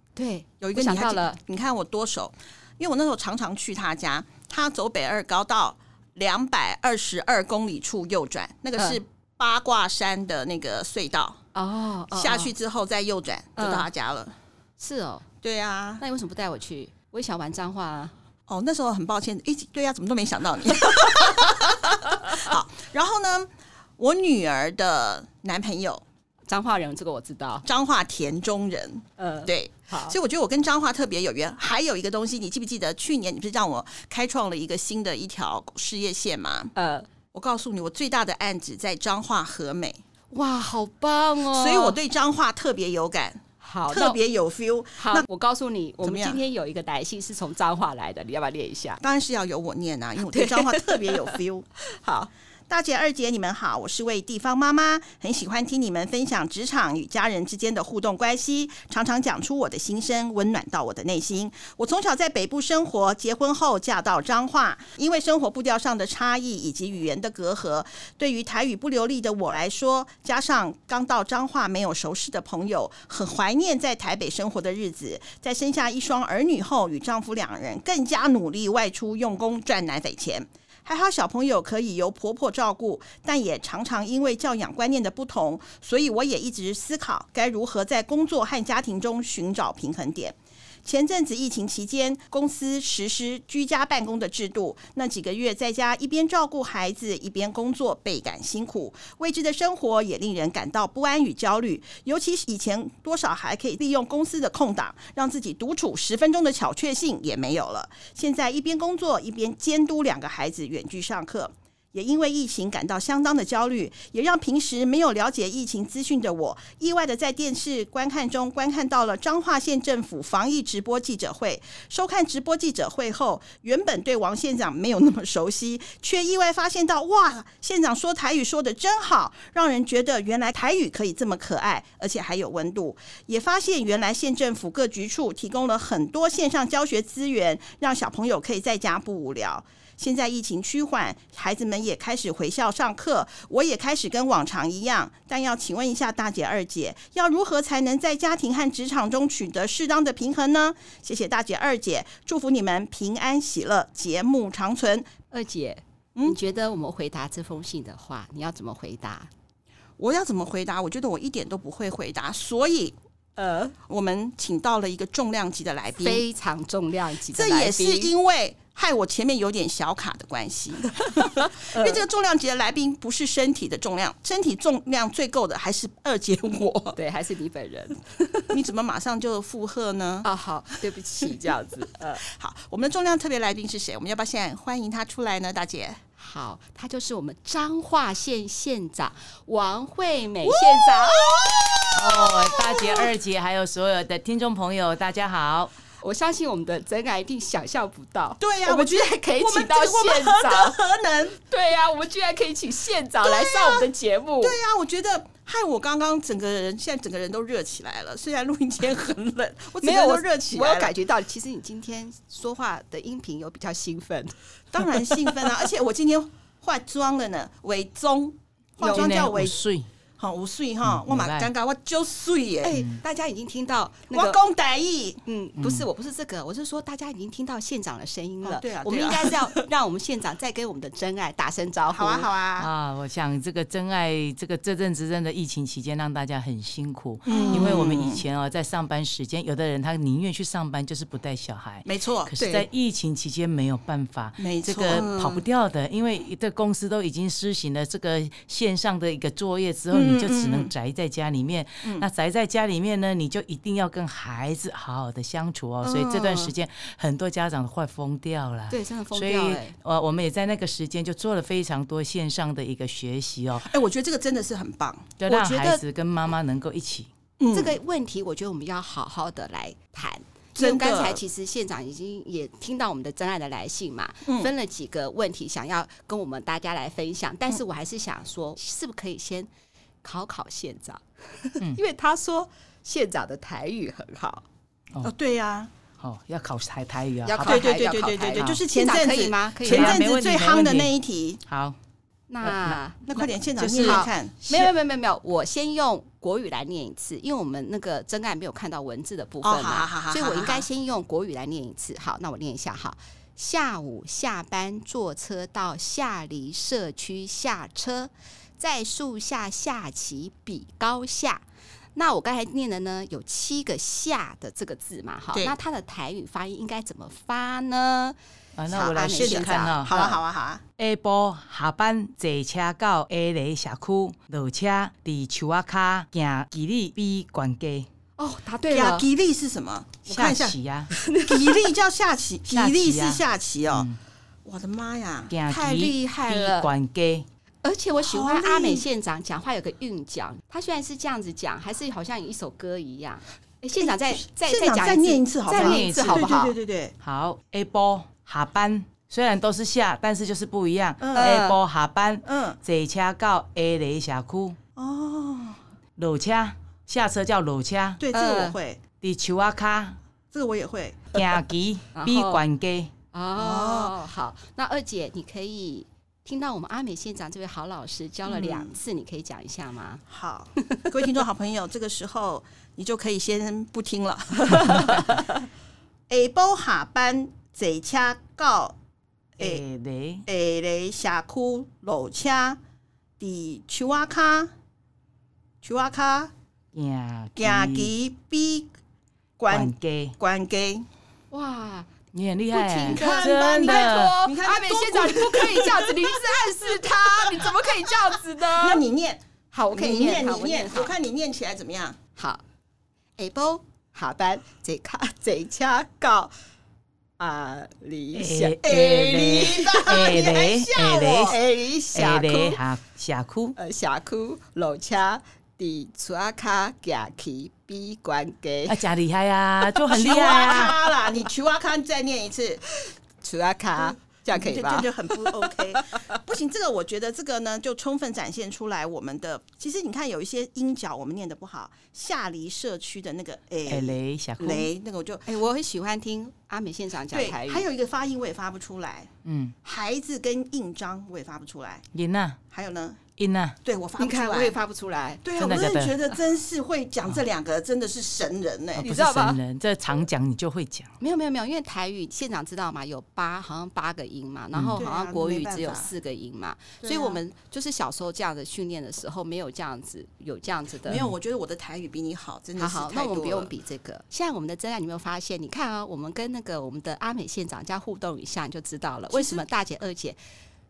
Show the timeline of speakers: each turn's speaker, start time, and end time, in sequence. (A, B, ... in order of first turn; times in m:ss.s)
0:00.2-0:01.4 A
0:00.6-0:11.4 B
0:11.6-0:12.5 A
0:12.1-0:14.3 B
0:13.6-0:13.9 A
0:14.8-0:15.3 A
0:15.4-0:16.0 B
0:16.0-0:18.1 A
0:18.5-0:26.0 B
0:26.5-0:27.7 A
0:27.6-0:36.7 B
0:29.2-0:30.2 A
0:36.8-0:37.1 A
0:37.3-0:40.0 B
0:40.3-0:42.0 A
0:41.5-0:45.3 B
0:43.6-0:44.2 A
0:45.0-0:49.0 A
0:46.0-0:46.4 B
0:49.0-0:51.7 B
0:50.2-0:51.3 A
0:51.9-0:52.3 A
0:52.7-2:35.1 B
2:35.3-2:39.3 A
2:40.0-2:43.0 B
2:43.4-2:43.7 A
2:43.9-2:46.2 B
2:46.0-2:48.1 A
2:47.3-2:57.0 B
2:50.9-2:52.0 A
2:57.0-2:58.5 A
2:58.5-3:00.3 B
3:00.2-3:02.2 A
3:02.2-3:06.0 B
3:06.2-3:11.4 A
3:10.4-3:13.1 B
3:11.9-3:15.7 C
3:16.0-3:20.8 A
3:18.4-3:21.4 B
3:21.5-3:24.6 A
3:23.2-3:23.9 B
3:24.4-3:30.9 B
3:29.8-3:34.3 A
3:34.7-3:39.6 B
3:38.8-3:39.1 A
3:38.9-3:39.9 C
3:40.2-3:42.8 B
3:40.9-3:41.5 C
3:42.6-3:44.4 A
3:42.8-3:43.0 C
3:44.1-3:45.2 B
3:45.2-3:52.3 A
3:45.6-3:45.9 C
3:48.4-3:49.6 B
3:51.9-3:52.7 B
3:52.6-4:23.7 C
3:57.3-3:58.2 B
3:57.3-3:57.9 A
4:01.9-4:02.6 B
4:04.4-4:05.1 B
4:04.9-4:05.4 A
4:09.9-4:10.7 B
4:15.8-4:16.5 A
4:18.7-4:19.8 A
4:23.7-4:25.1 B
4:25.2-4:27.1 C
4:25.3-4:25.8 A
4:27.4-4:27.8 B
4:27.5-4:39.5 A
4:30.6-4:31.2 B
4:34.3-4:34.5 B
4:40.0-4:44.4 A
4:45.0-4:45.7 B
4:46.0-4:47.7 C
4:47.3-4:50.0 A
4:47.4-4:51.4 B
4:48.4-4:48.6 C
4:49.6-4:50.9 C
4:51.5-4:51.8 C
4:52.3-4:53.1 A
4:52.4-4:52.8 C
4:53.1-4:54.7 B
4:53.6-4:54.0 C
4:53.8-5:11.4 A
4:59.4-5:00.7 B
5:12.0-5:18.2 A
5:18.6-5:20.0 C
5:18.7-5:20.2 A
5:18.7-5:20.6 B
5:20.8-5:27.9 C
5:28.2-5:29.1 A
5:28.7-5:30.6 B
5:30.1-5:30.9 C
5:30.9-5:31.7 A
5:31.3-5:33.9 B
5:32.5-5:34.0 C
5:34.4-5:35.3 B
5:35.3-5:37.3 C
5:35.5-5:36.7 A
5:37.6-5:46.6 A
5:38.0-5:38.9 B
5:44.4-5:46.9 B
5:45.5-5:46.3 C
5:47.0-5:54.6 C
5:51.0-5:51.4 B
5:51.2-5:51.6 A
5:52.2-5:52.6 B
5:54.8-5:55.6 B
5:56.0-5:58.0 C
5:58.0-5:58.8 B
5:58.1-5:58.6 A
5:59.0-6:00.0 C
6:00.3-6:01.2 B
6:01.1-6:02.9 C
6:02.0-6:02.4 A
6:03.1-6:10.0 A
6:03.4-6:03.9 B
6:08.3-6:08.8 B
6:10.1-6:15.4 B
6:10.6-6:10.9 A
6:14.5-6:14.9 A
6:16.1-6:18.8 B
6:19.4-6:20.3 C
6:20.3-6:22.6 B
6:23.2-6:24.5 B
6:25.6-6:26.3 B
6:26.7-6:27.9 C
6:27.4-6:28.7 B
6:29.4-6:30.9 B
6:29.5-6:30.2 C
6:31.3-6:31.9 A
6:32.1-6:34.2 C
6:32.5-6:38.8 A
6:32.9-6:37.9 B
6:38.5-6:42.0 B
6:39.5-6:40.9 A
6:42.2-6:42.4 A
6:43.2-6:46.3 A
6:47.2-6:48.9 A
6:48.1-6:51.4 C
6:48.6-6:51.4 B
6:49.4-6:50.0 A
6:51.2-6:52.6 A
6:51.9-6:53.6 C
6:53.6-6:58.8 A
6:58.7-7:00.8 C
6:59.9-7:02.6 B
7:03.2-7:06.0 A
7:03.8-7:15.3 B
7:13.7-7:14.7 C
7:15.3-7:17.7 A
7:17.1-7:19.1 B
7:19.2-7:19.6 C
7:19.6-7:21.9 B
7:21.9-7:22.4 C
7:22.5-7:23.0 B
7:23.2-7:23.6 C
7:23.6-7:24.6 B
7:24.0-7:25.2 A
7:25.2-7:28.9 B
7:25.4-7:26.0 C
7:28.8-7:30.9 C
7:28.8-7:29.4 A
7:31.0-7:41.0 A
7:34.5-7:34.8 C
7:34.8-7:35.9 B
7:36.8-7:37.2 B
7:40.9-7:43.5 B
7:42.6-7:50.2 A
7:49.1-7:49.4 B